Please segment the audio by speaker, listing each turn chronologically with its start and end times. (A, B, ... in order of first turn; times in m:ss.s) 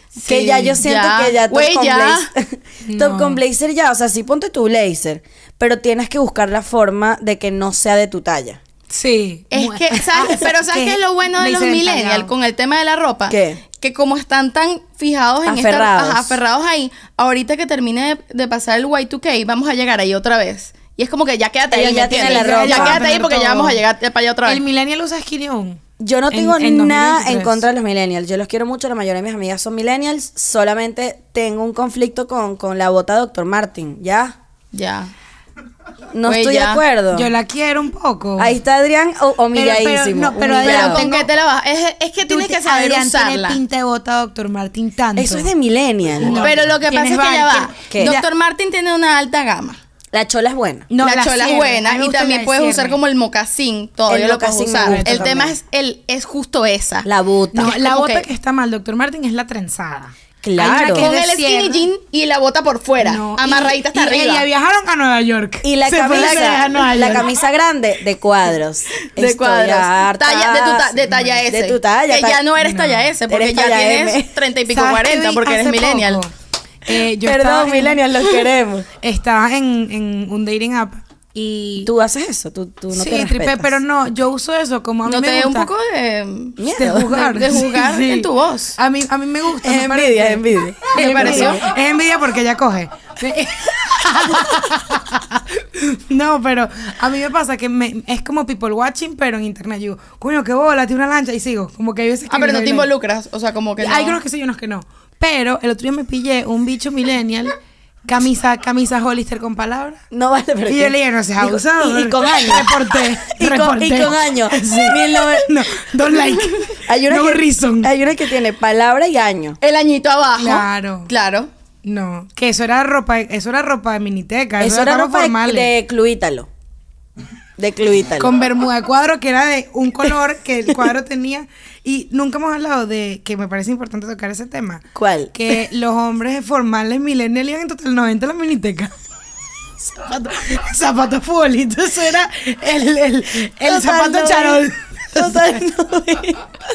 0:00.2-0:00.8 A
0:00.2-0:08.6 B
0:00.4-0:02.3 C
0:02.8-0:03.4 A
0:08.9-0:12.3 A
0:09.5-0:24.6 C
0:13.3-0:13.6 B
0:15.4-0:16.4 B
0:21.7-0:23.0 B
0:22.2-0:23.8 A
0:24.4-0:27.6 A
0:26.0-0:34.4 B
0:34.7-0:35.1 C
0:36.1-0:37.3 B
0:36.3-0:36.8 C
0:37.1-0:38.6 A
0:38.4-0:41.1 B
0:39.5-0:41.3 A
0:40.6-0:43.6 C
0:42.2-0:45.5 A
0:45.2-0:46.5 B
0:46.2-0:48.3 A
0:46.4-0:49.8 C
0:47.9-0:48.2 B
0:50.1-0:50.9 B
0:50.9-0:53.0 A
0:51.0-0:57.1 C
0:54.1-0:55.6 B
0:54.8-0:55.4 A
0:57.0-0:57.7 B
0:57.5-1:01.9 A
0:57.6-0:58.3 C
1:00.4-1:01.1 B
1:01.0-1:04.5 C
1:03.0-1:07.3 A
1:05.6-1:12.4 B
1:06.1-1:06.7 C
1:09.2-1:16.2 C
1:11.1-1:11.4 A
1:12.6-1:13.1 A
1:13.3-1:14.3 B
1:14.7-1:16.3 A
1:16.8-1:18.0 A
1:17.2-1:18.9 B
1:19.0-1:21.9 A
1:21.8-1:23.8 B
1:22.9-1:25.7 A
1:25.1-1:28.8 C
1:26.6-1:27.3 B
1:26.8-1:42.9 A
1:29.6-1:31.6 B
1:31.0-1:31.6 C
1:42.3-1:44.2 C
1:43.8-1:50.0 A
1:50.1-1:55.6 B
1:50.7-1:57.9 A
1:56.8-1:59.6 B
1:59.6-2:01.5 C
2:00.4-2:01.1 A
2:01.8-2:05.7 A
2:04.6-2:06.5 B
2:07.6-2:08.3 B
2:08.2-2:18.9 A
2:15.0-2:15.4 B
2:19.8-2:20.3 B
2:20.3-2:25.6 A
2:23.6-2:26.6 B